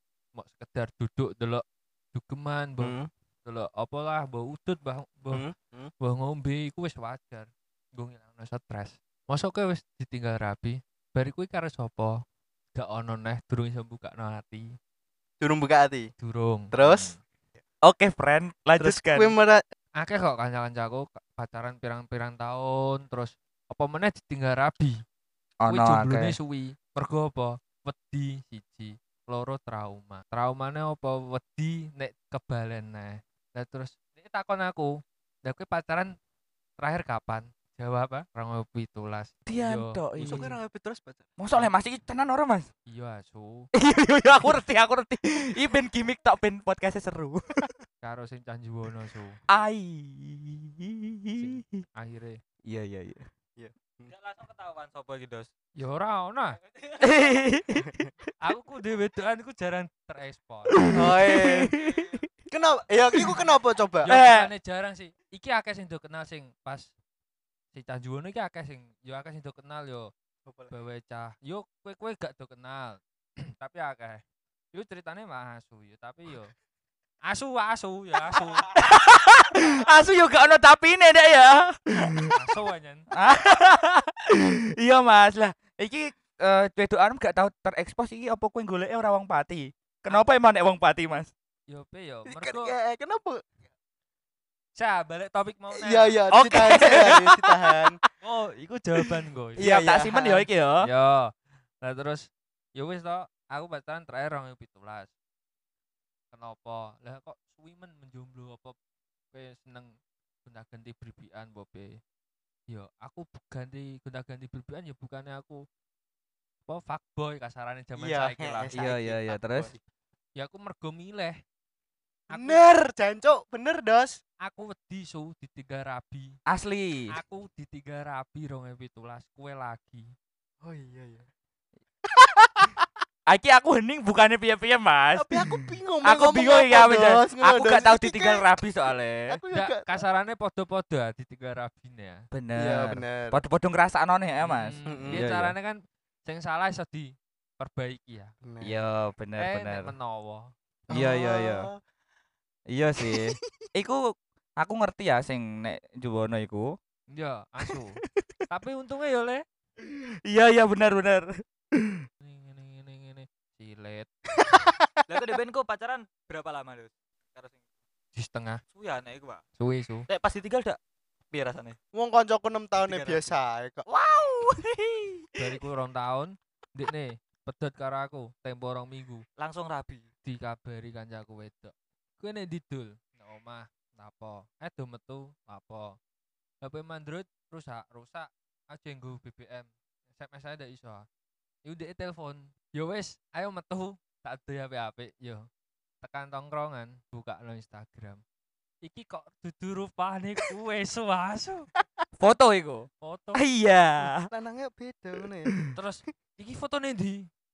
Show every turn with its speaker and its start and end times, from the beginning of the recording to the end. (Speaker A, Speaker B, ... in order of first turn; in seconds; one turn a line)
Speaker A: 0.3-1.6
Speaker A: 2.1-5.5
Speaker B: 2.8-3.1
Speaker B: 5.3-5.9
Speaker A: 6.0-12.2
Speaker A: 12.8-14.7
Speaker B: 15.4-16.1
Speaker A: 16.2-17.2
Speaker B: 16.7-17.1
Speaker C: 17.8-19.4
Speaker B: 18.8-19.6
Speaker A: 20.0-25.0
Speaker C: 25.6-26.4
Speaker A: 25.7-36.1
Speaker A: 36.8-40.5
Speaker C: 39.5-40.6
Speaker B: 40.2-41.3
Speaker C: 41.4-42.7
Speaker A: 42.9-43.7
Speaker C: 43.8-47.7
Speaker A: 48.0-49.4
Speaker C: 49.5-51.9
Speaker A: 51.4-52.4
Speaker C: 52.7-53.3
Speaker B: 53.6-54.1
Speaker D: 54.1-55.5
Speaker A: 55.8-56.6
Speaker C: 57.0-58.1
Speaker A: 58.4-60.8
Speaker C: 60.7-62.3
Speaker B: 60.9-61.7
Speaker B: 62.5-64.1
Speaker A: 64.0-66.9
Speaker C: 64.1-64.5
Speaker A: 67.7-70.1
Speaker B: 70.5-70.7
Speaker A: 70.7-74.2
Speaker A: 74.7-76.5
Speaker A: 77.3-78.7
Speaker C: 78.7-82.3
Speaker A: 82.3-83.1
Speaker C: 83.1-91.3
Speaker A: 91.7-92.8
Speaker B: 92.3-93.4
Speaker A: 94.8-96.2
Speaker B: 95.7-98.0
Speaker C: 96.3-98.0
Speaker A: 98.2-99.7
Speaker B: 99.6-100.5
Speaker C: 99.6-100.9
Speaker A: 100.8-105.1
Speaker A: 106.3-108.8
Speaker A: 109.3-109.9
Speaker A: 110.5-112.0
Speaker A: 112.7-115.6
Speaker A: 116.7-118.7
Speaker B: 118.0-119.8
Speaker C: 118.7-119.7
Speaker A: 120.4-121.4
Speaker A: 122.3-122.6
Speaker B: 122.3-124.2
Speaker A: 124.4-126.3
Speaker C: 126.5-127.1
Speaker A: 127.1-130.1
Speaker B: 130.6-131.3
Speaker B: 132.1-132.9
Speaker C: 133.3-139.4
Speaker B: 135.2-138.5
Speaker B: 139.3-140.0
Speaker A: 139.5-142.2
Speaker C: 142.3-145.6
Speaker B: 142.6-143.4
Speaker A: 144.4-148.3
Speaker B: 144.9-145.3
Speaker B: 148.4-148.7
Speaker C: 148.6-149.9
Speaker A: 149.4-150.5
Speaker B: 150.9-151.8
Speaker C: 150.9-151.7
Speaker C: 152.7-154.0
Speaker B: 153.0-153.4
Speaker C: 154.6-156.8
Speaker A: 157.1-159.4
Speaker C: 159.8-162.1
Speaker A: 162.2-164.1
Speaker B: 164.4-165.0
Speaker D: 165.1-167.6
Speaker A: 168.2-168.6
Speaker D: 168.7-169.4
Speaker A: 169.6-170.1
Speaker D: 170.1-170.8
Speaker D: 171.3-171.8
Speaker B: 171.9-173.9
Speaker D: 172.8-173.4
Speaker C: 173.9-175.1
Speaker A: 175.4-179.2
Speaker D: 179.4-180.1
Speaker A: 180.2-186.0
Speaker A: 186.6-191.1
Speaker A: 191.7-195.5
Speaker A: 196.0-198.2
Speaker A: 198.8-201.7
Speaker C: 202.2-204.3
Speaker A: 203.0-203.4
Speaker B: 204.0-205.6
Speaker A: 205.7-207.3